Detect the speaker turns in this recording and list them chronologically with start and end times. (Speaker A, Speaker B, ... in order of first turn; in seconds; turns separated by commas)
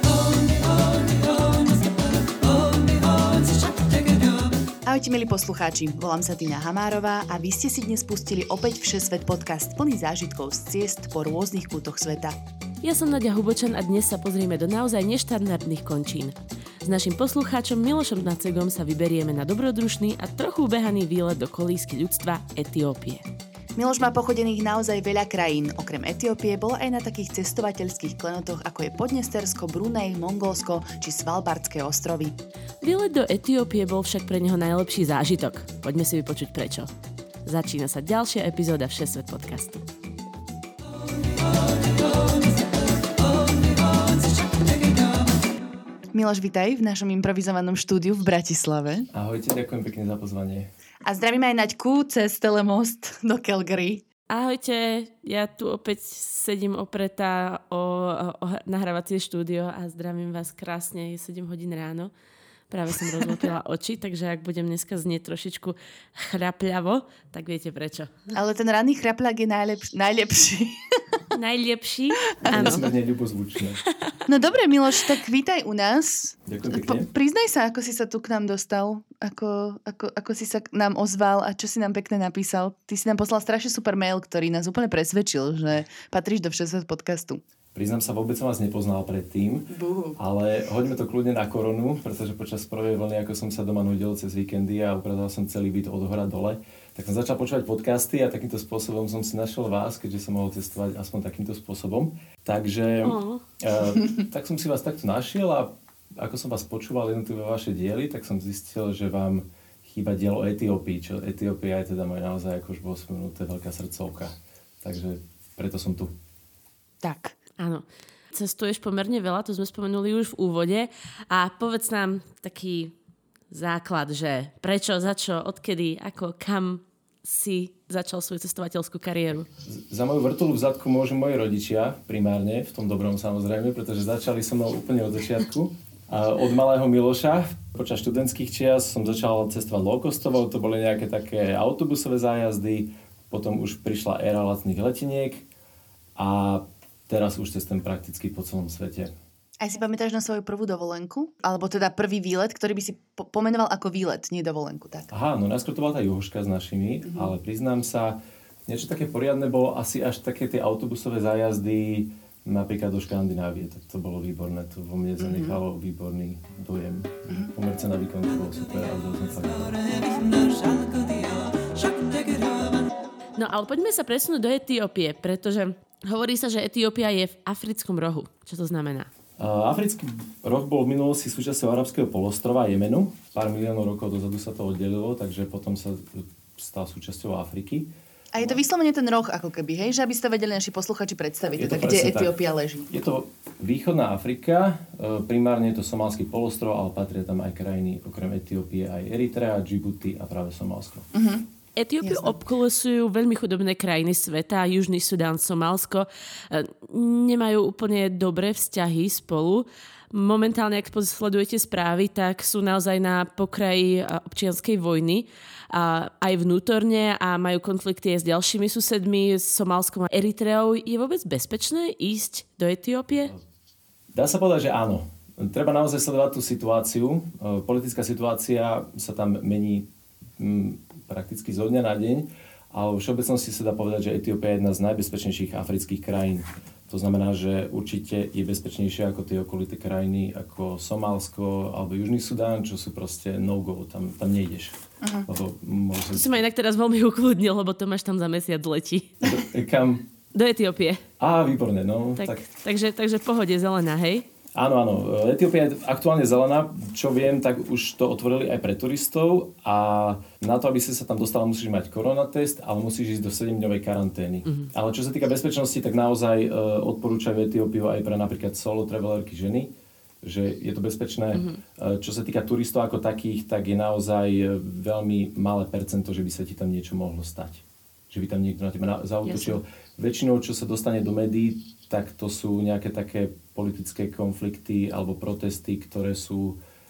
Speaker A: 4.8-12.4, Speaker B: 12.8-23.2, Speaker A: 23.8-32.4, Speaker B: 32.8-36.9, Speaker B: 37.5-39.8, Speaker A: 46.1-49.1, Speaker C: 49.1-50.7, Speaker A: 51.0-54.0, Speaker B: 54.3-62.1, Speaker B: 62.7-68.3, Speaker A: 68.3-70.8, Speaker B: 71.3-72.9, Speaker A: 72.5-72.8, Speaker C: 72.5-73.8, Speaker A: 74.3-87.4, Speaker C: 76.5-77.1, Speaker C: 87.8-116.1, Speaker A: 89.7-90.2, Speaker B: 103.0-103.4, Speaker A: 117.0-117.3, Speaker B: 117.6-123.0, Speaker B: 123.5-129.5, Speaker C: 129.7-145.4, Speaker C: 146.2-149.1, Speaker A: 149.6-155.1, Speaker C: 155.1-170.1, Speaker A: 165.2-165.6, Speaker B: 170.5-170.9, Speaker B: 173.3-179.1, Speaker C: 179.4-188.6, Speaker A: 188.3-192.9, Speaker C: 191.6-192.3, Speaker C: 192.9-201.1, Speaker A: 201.1-201.4, Speaker B: 201.8-223.3, Speaker A: 202.0-202.3, Speaker C: 224.1-229.9, Speaker C: 230.4-246.4, Speaker A: 245.0-245.3, Speaker B: 246.1-249.3, Speaker C: 249.2-250.1, Speaker B: 250.3-251.0, Speaker C: 251.2-252.5, Speaker B: 252.2-254.3, Speaker C: 254.5-269.7, Speaker C: 270.2-286.6, Speaker B: 271.3-271.6, Speaker B: 279.3-279.6